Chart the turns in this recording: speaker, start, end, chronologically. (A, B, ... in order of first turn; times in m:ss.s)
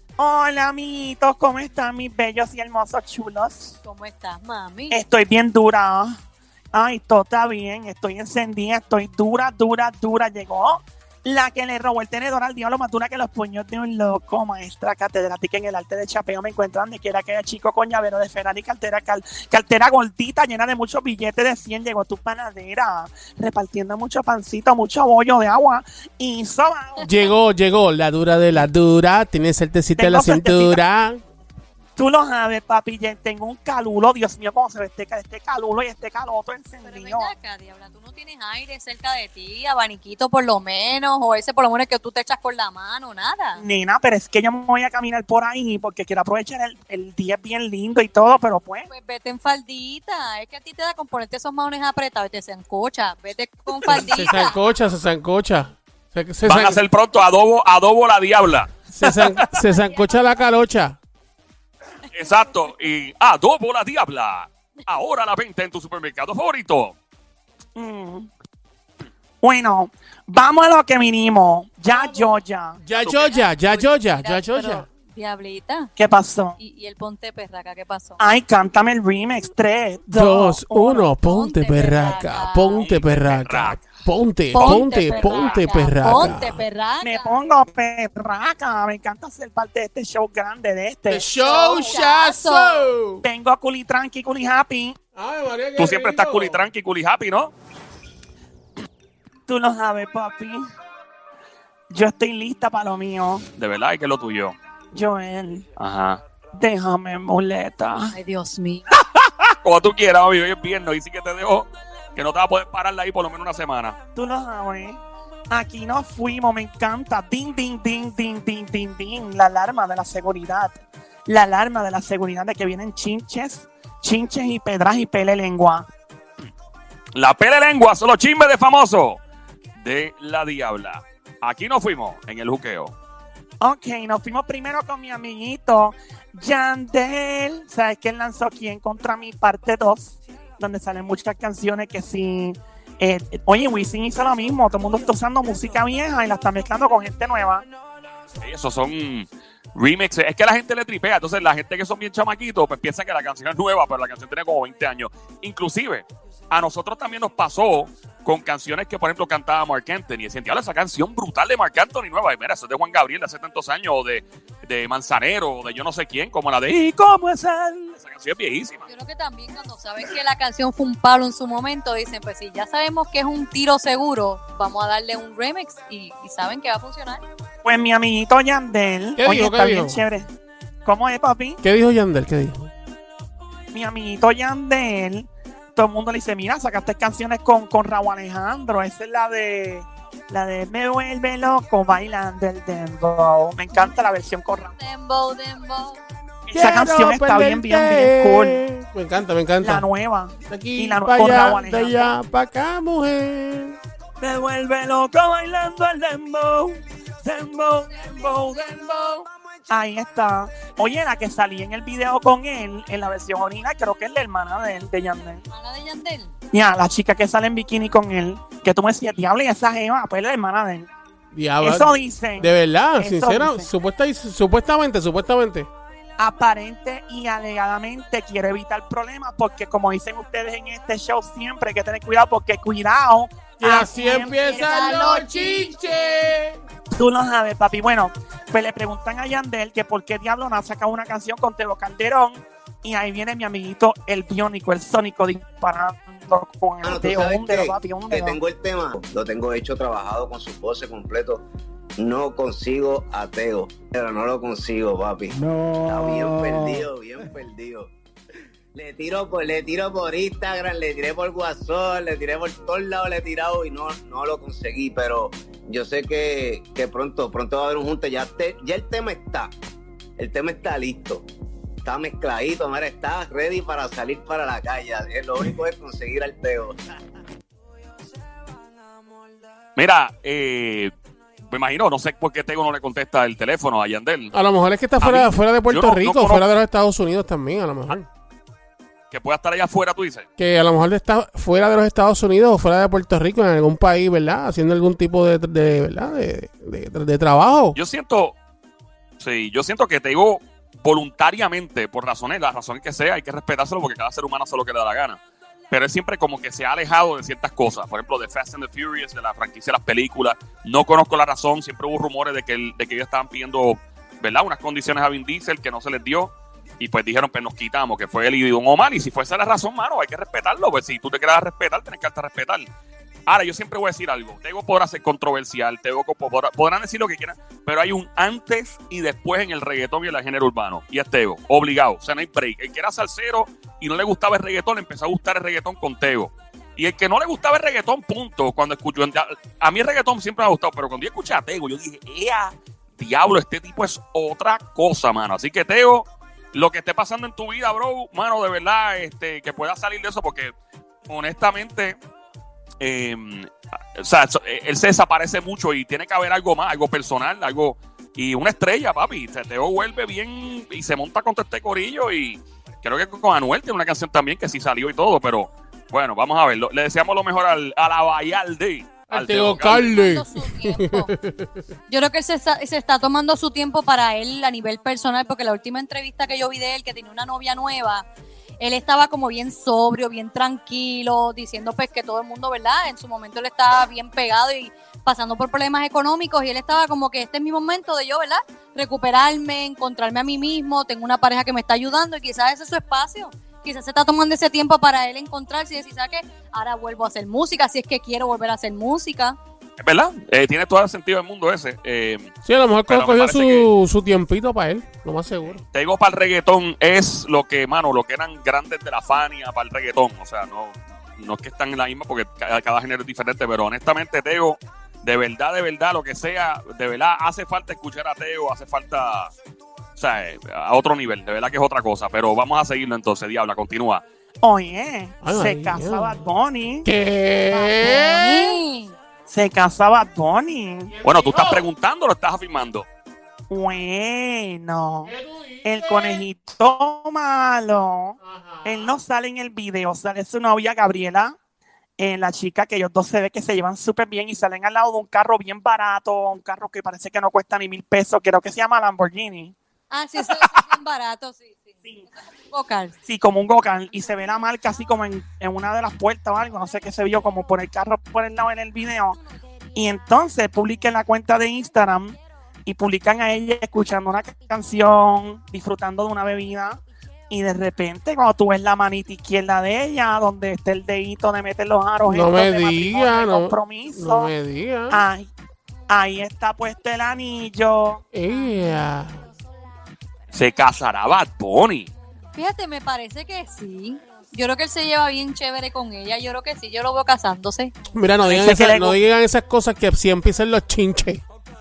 0:00.2-0:03.8 A
0:03.8-0:05.0 B
0:04.9-0:06.2 A
0:06.7-0:27.2 A
0:27.0-0:31.2 C
0:30.0-0:30.8 A
0:32.0-0:37.3 A
0:36.8-0:43.6 B
0:43.6-0:48.9 A
0:48.9-0:54.5 B
0:53.8-0:56.8 C
0:56.4-0:59.5 D
0:58.9-1:01.0 C
1:02.1-1:06.9 D
1:07.8-1:08.3 A
1:09.4-1:12.8 A
1:11.9-1:14.8 C
1:13.0-1:13.4 D
1:13.4-1:15.9 B
1:16.0-1:16.6 A
1:16.6-1:18.2 B
1:18.2-1:21.1 A
1:20.1-1:26.6 C
1:21.2-1:22.8 B
1:22.7-1:23.9 D
1:24.5-1:27.3 B
1:24.6-1:25.5 D
1:27.0-1:31.9 A
1:31.1-1:33.2 C
1:31.4-1:32.8 B
1:33.2-1:35.0 A
1:35.1-1:36.7 C
1:35.8-1:37.5 D
1:39.5-1:40.6 A
1:41.9-1:43.4 A
1:43.6-1:44.5 D
1:44.9-1:45.7 A
1:45.8-1:46.2 D
1:46.6-1:48.1 A
1:48.1-1:48.8 B
1:49.0-1:54.0 D
1:54.2-2:05.9 A
2:07.1-2:09.2 D
2:09.7-2:12.9 D
2:13.6-2:27.6 A
2:28.4-2:48.9 D
2:48.9-2:57.2 B
2:57.6-3:00.3 A
2:59.2-3:00.0 C
3:00.8-3:01.6 A
3:01.6-3:02.7 C
3:03.7-3:14.7 A
3:14.8-3:16.0 B
3:16.4-3:18.6 A
3:16.5-3:19.8 C
3:19.6-3:22.1 A
3:20.5-3:23.8 C
3:24.2-3:35.4 A
3:35.5-3:36.3 B
3:36.5-3:40.9 A
3:41.3-3:45.7 C
3:41.6-3:43.7 A
3:46.2-3:54.4 A
3:53.6-3:56.6 C
3:54.0-3:55.8 B
3:56.9-4:08.4 A
4:06.8-4:11.4 E
4:12.0-4:17.9 E
4:18.7-4:29.5 E
4:30.2-4:31.2 E
4:31.8-4:36.8 E
4:39.8-4:40.9 D
4:41.5-4:44.3 D
4:44.3-4:48.1 C
4:45.0-4:46.4 D
4:49.1-4:50.3 D
4:50.4-4:57.8 C
4:57.7-4:58.3 D
4:59.2-5:22.7 D
5:23.3-5:50.5 D
5:51.1-5:52.0 D
5:52.8-6:09.9 D
6:09.1-6:11.6 C
6:09.7-6:11.1 B
6:11.9-6:18.0 B
6:18.6-6:39.4 B
6:39.8-6:42.3 D
6:42.4-6:45.6 C
6:42.9-6:43.7 D
6:45.7-6:59.3 D
7:00.0-7:04.0 D
7:04.4-7:06.9 A
7:05.2-7:06.2 C
7:06.8-7:08.6 C
7:07.5-7:08.9 B
7:09.3-7:10.9 A
7:10.9-7:11.7 C
7:11.0-7:12.8 D
7:13.5-7:15.1 A
7:15.0-7:16.2 C
7:15.6-7:21.4 A
7:18.2-7:18.9 C
7:22.0-7:29.5 A
7:29.9-7:31.8 B
7:32.5-7:33.0 B
7:33.0-7:39.2 A
7:39.7-7:54.3 A
7:52.0-7:55.0 C
7:54.9-7:55.3 A
7:55.9-7:58.0 A
7:58.1-7:59.3 C
8:00.3-8:01.9 D
8:02.3-8:07.7 B
8:07.9-8:11.2 C
8:08.3-8:09.0 A